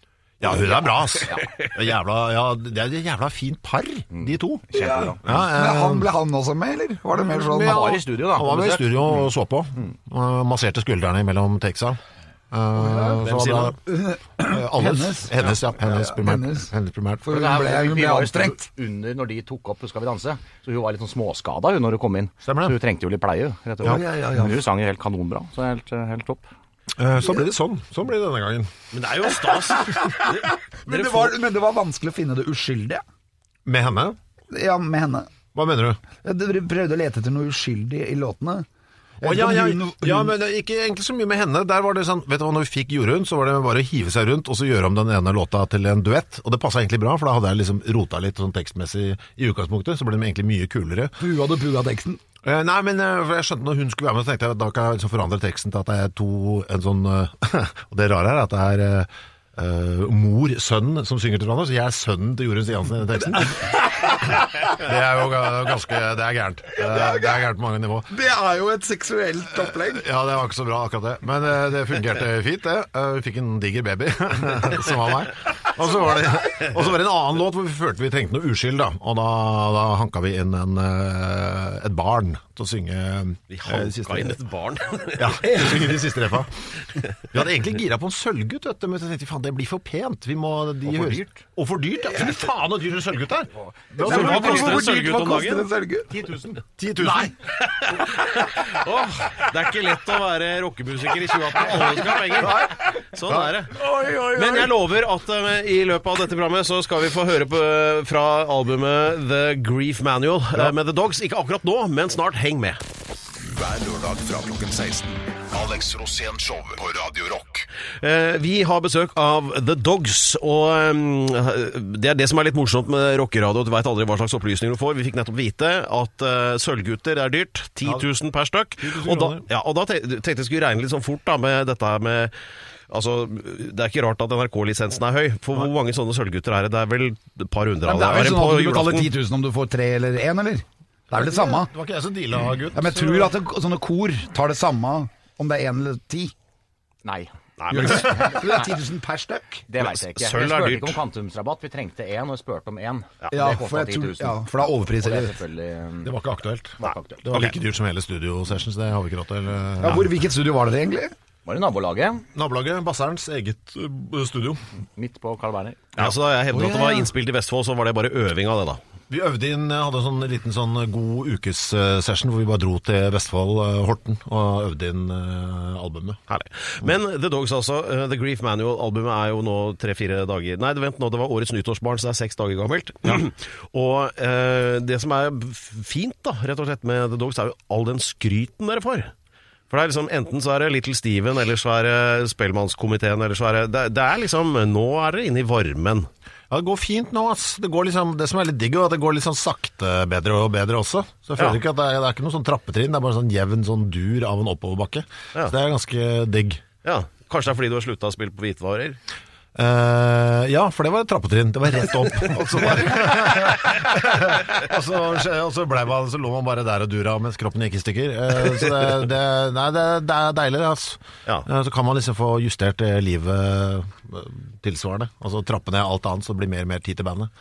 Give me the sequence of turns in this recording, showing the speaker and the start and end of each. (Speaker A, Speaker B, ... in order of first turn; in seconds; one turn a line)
Speaker A: 0.4-6.1
Speaker B: 4.1-5.2
Speaker C: 4.7-8.0
Speaker A: 7.1-12.0
Speaker B: 7.5-9.3
Speaker A: 12.5-13.8
Speaker C: 12.7-16.7
Speaker D: 13.2-13.6
Speaker A: 14.4-17.3
Speaker C: 17.2-18.7
Speaker B: 17.3-26.4
Speaker A: 22.4-22.8
Speaker C: 23.8-24.6
Speaker A: 26.9-28.7
Speaker D: 28.9-31.3
Speaker C: 29.4-33.0
Speaker A: 33.6-34.2
Speaker C: 34.5-35.3
Speaker A: 35.5-36.0
Speaker C: 36.2-38.6
Speaker C: 39.2-40.3
Speaker A: 39.2-51.2
Speaker C: 51.2-52.2
Speaker A: 52.4-68.1
Speaker C: 63.6-64.4
Speaker C: 66.7-67.5
Speaker C: 68.1-70.0
Speaker A: 69.7-84.4
Speaker D: 83.5-85.7
Speaker A: 85.2-86.6
Speaker C: 85.4-85.9
Speaker A: 87.3-94.9
Speaker B: 90.8-91.3
Speaker C: 93.9-96.1
Speaker D: 94.0-95.7
Speaker B: 96.1-96.4
Speaker A: 96.5-97.3
Speaker C: 97.0-97.3
Speaker D: 97.6-103.8
Speaker A: 102.4-104.6
Speaker C: 103.7-104.7
Speaker D: 104.3-112.8
Speaker E: 113.4-117.7
Speaker D: 118.0-132.3
Speaker A: 128.8-129.4
Speaker D: 132.9-139.1
Speaker C: 137.8-141.7
Speaker A: 141.1-143.3
Speaker C: 142.7-146.3
Speaker B: 147.0-148.7
Speaker D: 147.6-148.3
Speaker C: 147.7-149.7
Speaker B: 149.7-156.1
Speaker D: 149.8-151.0
Speaker C: 153.3-155.3
Speaker A: 156.0-160.1
Speaker B: 156.8-157.2
Speaker D: 156.8-157.5
Speaker C: 159.8-161.1
Speaker B: 161.4-162.2
Speaker A: 162.3-164.6
Speaker B: 164.9-165.9
Speaker D: 165.9-168.8
Speaker C: 166.5-167.1
Speaker A: 169.1-176.2
Speaker D: 176.3-189.1
Speaker D: 189.7-196.1
Speaker A: 196.5-206.6
Speaker D: 206.8-209.0
Speaker A: 209.5-227.3